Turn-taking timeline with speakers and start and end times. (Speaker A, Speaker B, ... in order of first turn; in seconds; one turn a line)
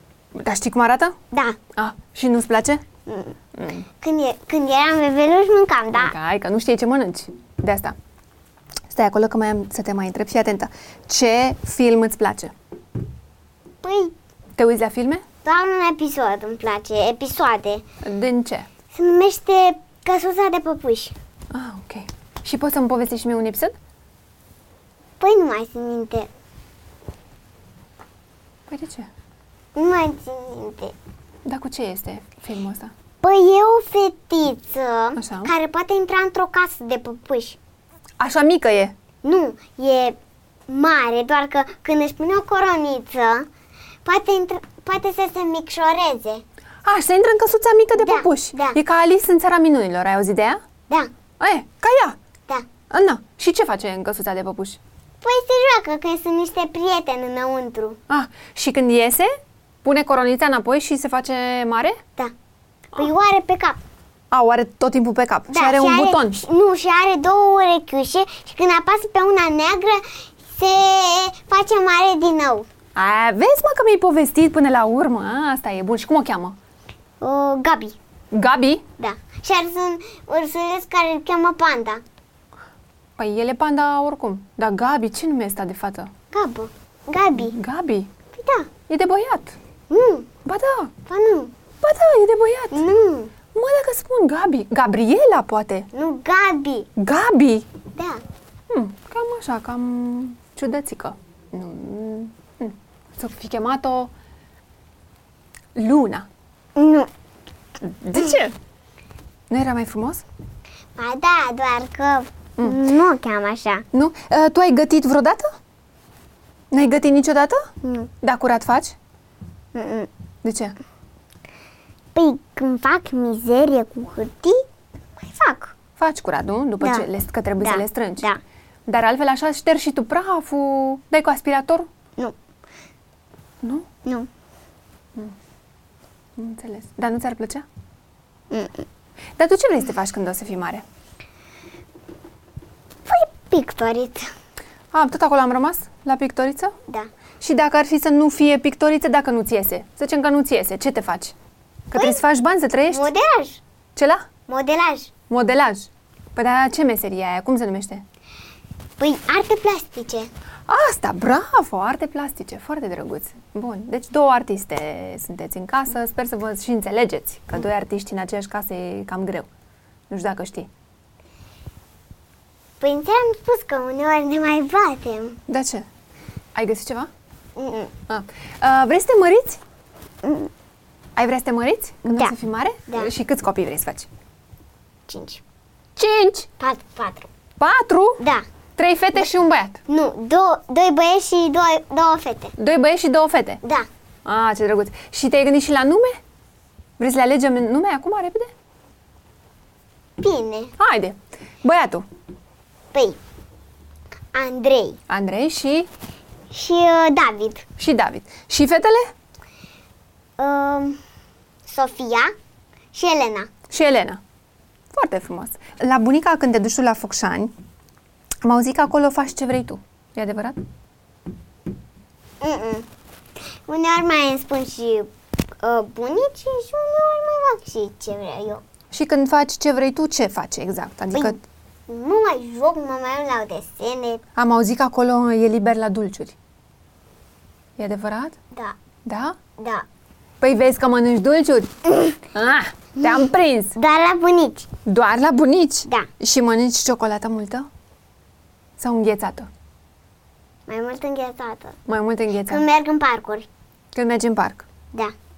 Speaker A: 0.3-1.2
Speaker B: 1.3-1.6
Speaker A: 1.8-2.8
Speaker B: 3.1-3.4
Speaker A: 3.5-3.9
Speaker B: 4.0-6.2
Speaker A: 5.9-8.0
Speaker A: 8.9-12.5
Speaker B: 13.8-14.2
Speaker A: 14.6-15.2
Speaker B: 15.4-17.9
Speaker A: 18.0-18.7
Speaker B: 18.9-21.1
Speaker A: 21.5-23.8
Speaker B: 25.2-26.3
Speaker A: 28.7-29.1
Speaker B: 29.8-30.9
Speaker A: 31.4-32.9
Speaker B: 33.2-37.6
Speaker A: 35.2-35.5
Speaker A: 38.2-38.9
Speaker B: 39.2-43.5
Speaker B: 44.0-46.4
Speaker A: 46.8-50.6
Speaker B: 48.0-48.8
Speaker A: 51.4-52.2
Speaker A: 52.9-54.8
Speaker B: 55.2-58.0
Speaker A: 58.1-59.3
Speaker A: 59.8-62.0
Speaker B: 63.0-63.8
Speaker A: 64.3-66.4
Speaker B: 65.5-72.7
Speaker A: 73.0-76.6
Speaker B: 77.2-78.0
Speaker A: 78.3-78.8
Speaker B: 79.0-82.0
Speaker A: 83.2-86.1
Speaker B: 86.3-87.6
Speaker A: 87.3-88.1
Speaker B: 88.3-88.7
Speaker A: 88.9-89.6
Speaker B: 89.9-90.3
Speaker A: 90.5-90.9
Speaker B: 91.1-91.5
Speaker A: 91.8-92.8
Speaker B: 92.7-93.3
Speaker A: 93.5-95.9
Speaker B: 95.9-96.9
Speaker A: 97.0-97.7
Speaker B: 97.9-98.2
Speaker A: 98.7-104.1
Speaker A: 105.8-106.3
Speaker B: 106.8-107.1
Speaker A: 107.8-108.5
Speaker A: 109.5-110.2
Speaker B: 111.0-113.8
Speaker A: 113.9-115.5
Speaker A: 116.7-119.0
Speaker B: 117.8-118.1
Speaker B: 119.7-120.1
Speaker A: 120.4-120.8
Speaker B: 122.2-124.7
Speaker B: 125.2-125.7
Speaker A: 126.0-128.3
Speaker B: 126.8-127.1
Speaker B: 127.6-128.4
Speaker A: 128.9-131.9
Speaker A: 133.6-133.9
Speaker B: 134.0-134.3
Speaker A: 136.4-137.7
Speaker B: 138.5-138.9
Speaker A: 139.4-140.8
Speaker B: 143.1-144.3
Speaker A: 144.9-146.8
Speaker A: 147.4-151.3
Speaker A: 151.9-153.1
Speaker B: 151.9-152.2
Speaker B: 152.9-153.6
Speaker A: 154.0-154.3
Speaker B: 154.5-155.1
Speaker A: 155.3-158.0
Speaker B: 159.0-160.3
Speaker A: 160.7-169.5
Speaker A: 170.1-170.7
Speaker B: 172.8-175.4
Speaker A: 175.5-175.9
Speaker A: 176.6-177.1
Speaker B: 177.6-177.9
Speaker A: 178.1-179.6
Speaker B: 180.2-180.5
Speaker A: 181.2-184.1
Speaker B: 182.1-182.3
Speaker B: 185.1-185.4
Speaker A: 186.0-186.5
Speaker B: 186.6-187.3
Speaker A: 187.6-188.2
Speaker B: 188.2-188.4
Speaker A: 188.8-189.8
Speaker B: 189.9-192.6
Speaker A: 192.6-193.6
Speaker A: 194.2-196.2
Speaker A: 197.0-198.5
Speaker B: 200.2-200.7
Speaker A: 200.8-202.1
Speaker B: 202.9-203.2
Speaker B: 204.3-205.0
Speaker A: 205.1-205.9
Speaker B: 206.5-207.7
Speaker A: 207.8-209.1
Speaker B: 210.4-211.0
Speaker B: 211.7-212.3
Speaker B: 212.9-213.5
Speaker A: 213.7-214.2
Speaker A: 214.9-217.5
Speaker A: 218.4-220.6
Speaker B: 222.4-222.9
Speaker B: 223.4-228.6
Speaker A: 228.9-231.4
Speaker B: 231.9-234.2
Speaker A: 234.4-236.4
Speaker A: 237.8-238.4
Speaker A: 239.1-239.4
Speaker B: 239.6-239.9
Speaker A: 240.4-241.8
Speaker B: 241.9-242.2
Speaker A: 242.3-243.8
Speaker B: 243.0-244.7
Speaker A: 244.9-247.7
Speaker A: 248.8-249.5
Speaker B: 250.7-251.8
Speaker A: 251.9-252.6
Speaker B: 252.5-253.5
Speaker A: 253.9-254.7